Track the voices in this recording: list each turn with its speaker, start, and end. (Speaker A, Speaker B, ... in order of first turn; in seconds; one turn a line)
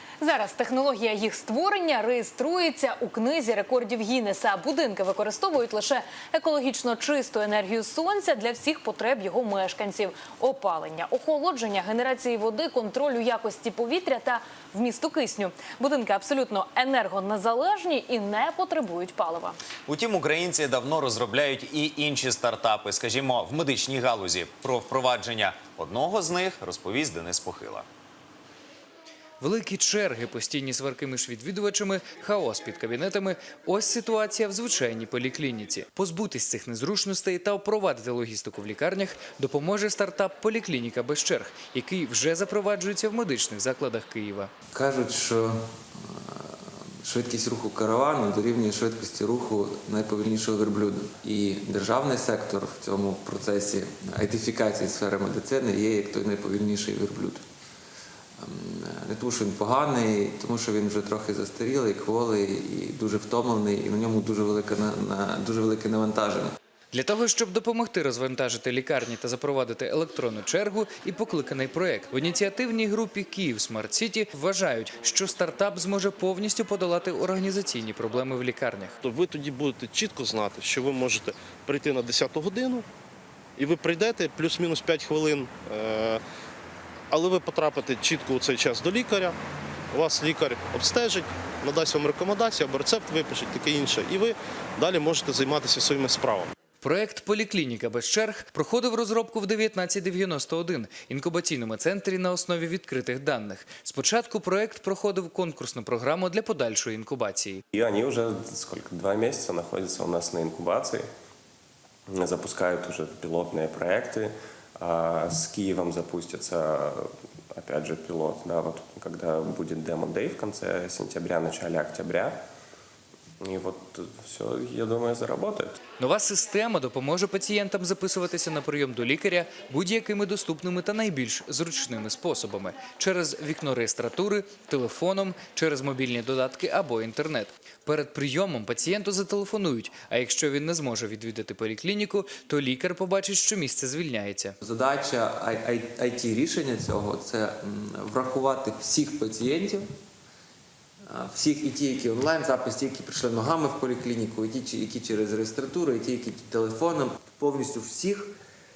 Speaker A: 0.2-19.6
Speaker B: 19.9-27.9
Speaker C: 29.4-44.5
Speaker D: 44.7-57.4
Speaker D: 58.4-66.5
Speaker C: 66.9-79.0
Speaker E: 79.0-82.9
Speaker E: 83.6-86.2
Speaker E: 87.1-89.4
Speaker E: 89.9-96.5
Speaker C: 96.8-107.6
Speaker F: 107.7-111.0
Speaker F: 112.1-122.4
Speaker F: 123.4-125.8
Speaker C: 126.0-144.6
Speaker D: 144.6-149.9
Speaker D: 151.1-158.3